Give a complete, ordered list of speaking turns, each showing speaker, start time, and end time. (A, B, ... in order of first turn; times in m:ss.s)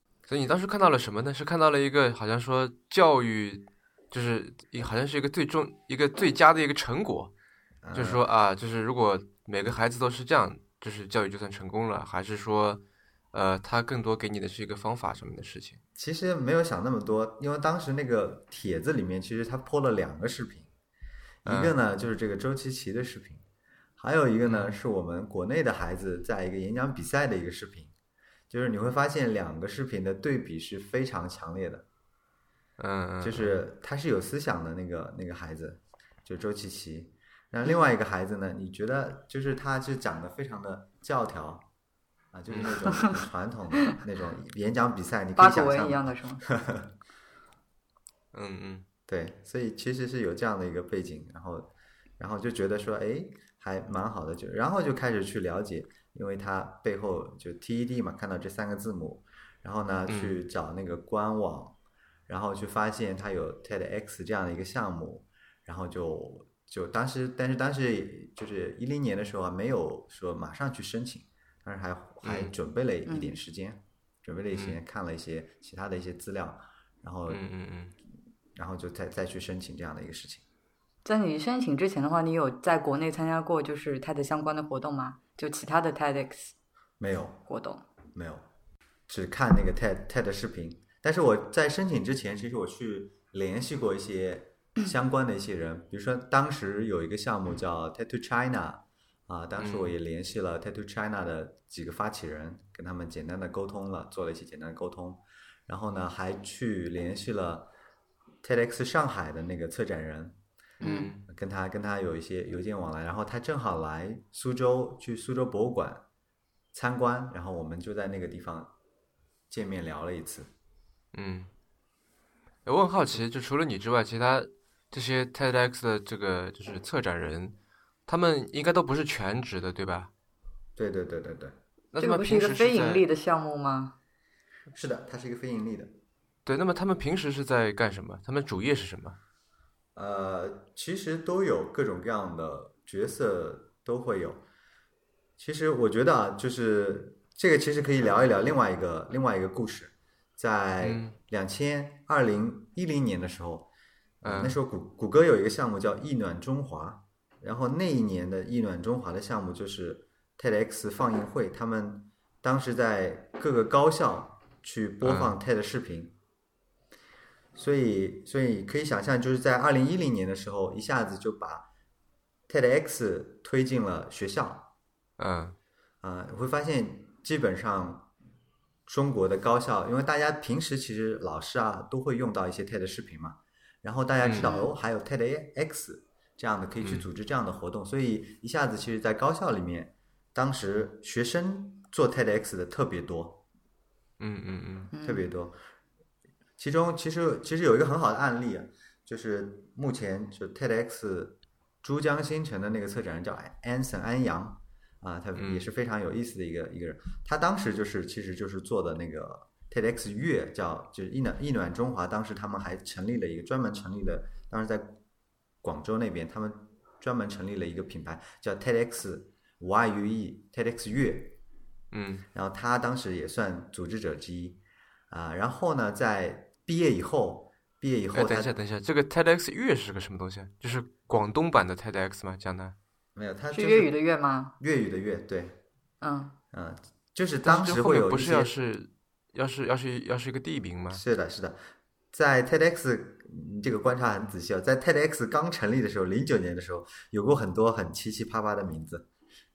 0:00.3-0:07.3 A
0:07.8-0:08.2 B
0:07.9-0:12.8 A
0:13.3-0:15.8 A
0:16.0-0:20.7 B
0:21.4-0:23.4 B
0:21.5-0:21.8 A
0:24.0-0:27.9 B
0:24.5-0:24.8 A
0:28.5-0:31.8 B
0:32.8-0:33.6 A
0:33.2-0:41.7 B
0:42.3-0:46.9 B
0:45.4-0:46.4 C
0:48.3-0:48.8 A
0:49.1-1:01.8 B
1:00.1-1:00.4 A
1:02.3-1:17.4 B
1:12.2-1:12.5 A
1:13.1-1:13.4 C
1:14.5-1:14.8 A
1:17.3-1:18.0 A
1:18.6-1:20.4 B
1:21.0-1:26.5 C
1:27.0-1:27.4 B
1:27.5-1:27.8 C
1:28.1-1:28.4 B
1:29.1-1:47.7 B
1:39.6-1:39.9 A
1:48.4-1:50.4 B
1:50.8-1:51.2 A
1:50.8-1:51.1 C
1:51.3-1:56.0 B
1:56.7-1:58.7 B
1:59.5-2:00.5 B
2:01.1-2:01.5 A
2:02.7-2:07.6 A
2:08.1-2:10.1 A
2:10.8-2:11.6 B
2:11.9-2:13.0 A
2:12.0-2:14.0 C
2:14.7-2:15.9 B
2:16.5-2:19.2 A
2:20.0-2:24.4 B
2:25.4-2:33.7 B
2:30.8-2:31.2 A
2:34.2-2:46.2 B
2:34.2-2:34.6 A
2:45.0-2:45.4 A
2:47.6-2:51.7 B
2:52.5-2:54.7 B
2:55.2-2:55.6 A
2:56.0-2:58.1 B
2:58.9-3:13.4 B
3:04.2-3:04.5 A
3:04.4-3:04.7 C
3:14.2-3:14.9 A
3:14.9-3:15.3 C
3:15.0-3:15.6 B
3:16.6-3:35.0 B
3:25.4-3:25.7 A
3:35.6-3:41.4 B
3:41.9-3:42.2 A
3:42.3-3:44.6 B
3:45.1-3:48.5 B
3:48.1-3:52.8 A
3:53.2-3:53.9 B
3:53.5-3:54.6 C
3:54.6-3:55.6 B
3:56.0-3:56.4 C
3:56.5-3:58.5 B
3:57.4-4:01.0 A
4:00.9-4:09.1 B